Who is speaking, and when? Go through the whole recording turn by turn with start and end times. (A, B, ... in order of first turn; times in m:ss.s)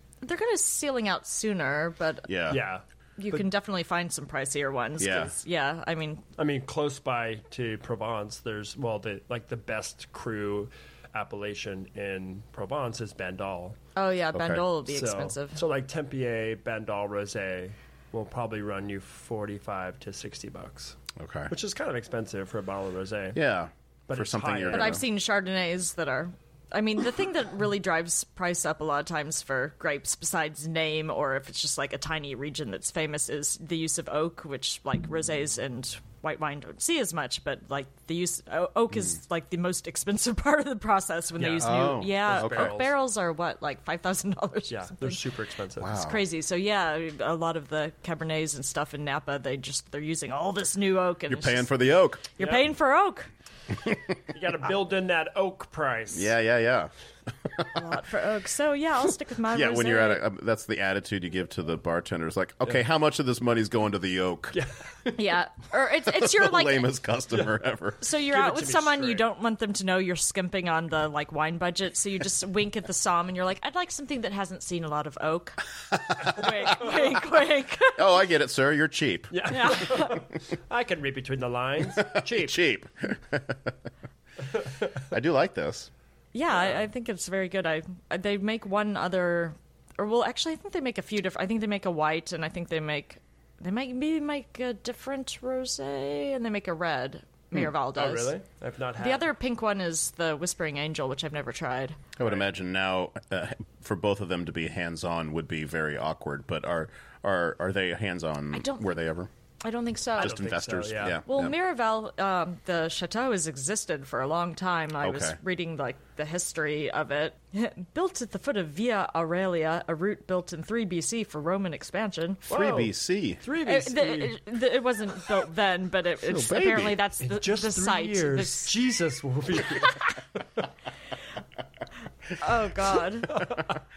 0:00.2-0:02.3 A
0:02.3-0:02.6 B
0:02.5-0:03.4 C
0:03.2-0:06.2 A
0:05.0-0:05.3 B
0:06.4-0:13.8 C
0:13.9-0:15.6 A
0:14.3-0:14.6 B
0:14.9-0:21.0 C
0:21.2-0:21.5 B
0:21.5-0:23.4 C
0:23.3-0:25.0 B
0:24.1-0:25.0 C
0:24.7-0:45.2 A
0:41.4-0:42.9 C
0:41.6-0:42.8 B
0:44.7-0:46.0 C
0:45.8-0:46.2 B
0:45.9-0:51.7 A
0:51.3-0:52.3 B
0:52.4-0:53.3 A
0:52.4-0:52.6 C
0:54.3-0:56.3 C
0:56.1-0:56.9 B
0:57.4-0:57.8 B
0:57.7-1:00.2 A
0:59.5-1:04.6 B
1:04.5-1:05.1 C
1:05.1-1:06.9 A
1:06.1-1:08.0 B
1:08.0-1:18.0 A
1:08.1-1:09.2 C
1:15.9-1:16.7 B
1:18.0-1:19.4 B
1:19.3-1:22.6 C
1:19.5-1:20.2 A
1:21.9-1:23.8 B
1:25.1-1:25.9 B
1:26.3-1:38.4 A
1:37.9-1:39.3 C
1:39.0-1:42.0 A
1:42.2-1:49.3 B
1:48.5-1:48.9 A
1:49.6-1:50.4 A
1:50.2-1:51.2 C
1:50.2-1:51.5 B
1:51.2-2:02.4 A
1:55.0-1:55.4 B
2:02.5-2:03.4 B
2:02.5-2:04.4 C
2:03.6-2:08.7 A
2:06.2-2:07.0 B
2:07.2-2:10.1 C
2:12.4-2:13.4 A
2:13.3-2:13.6 C